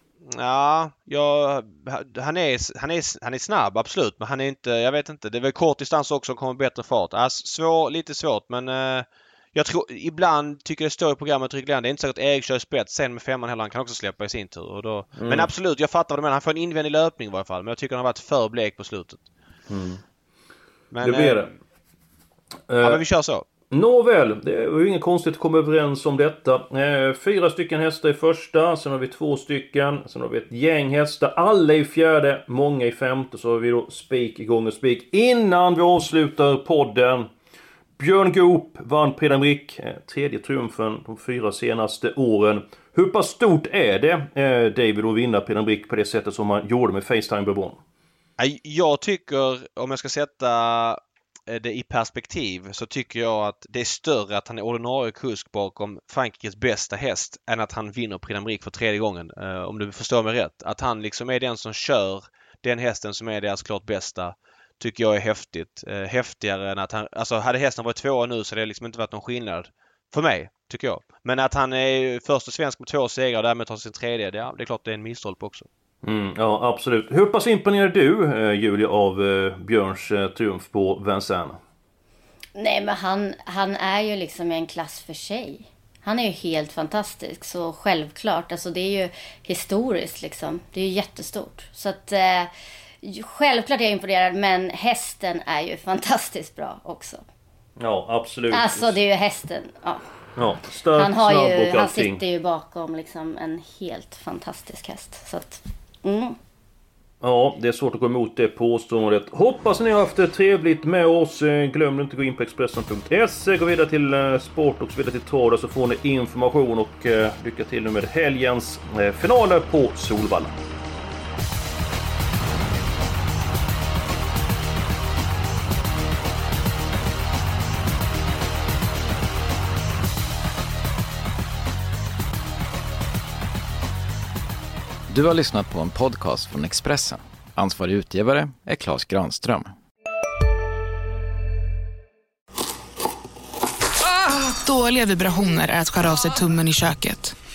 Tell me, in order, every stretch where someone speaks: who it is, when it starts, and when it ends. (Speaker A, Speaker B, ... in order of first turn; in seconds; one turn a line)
Speaker A: 0.3-19.2
Speaker B: 15.2-15.5
Speaker B: 19.7-20.0
Speaker A: 20.9-21.6
Speaker B: 21.0-21.5
Speaker B: 22.7-23.0
Speaker A: 22.8-23.4
Speaker B: 23.7-37.3
Speaker B: 38.0-47.8
Speaker A: 48.4-75.7
Speaker B: 76.0-81.6
Speaker C: 82.5-92.5
Speaker C: 93.0-97.2
Speaker B: 97.8-99.0
Speaker C: 98.5-100.0
Speaker B: 100.4-102.2
Speaker C: 101.0-106.4
Speaker B: 107.2-120.6
Speaker D: 135.1-139.8
Speaker E: 144.5-147.4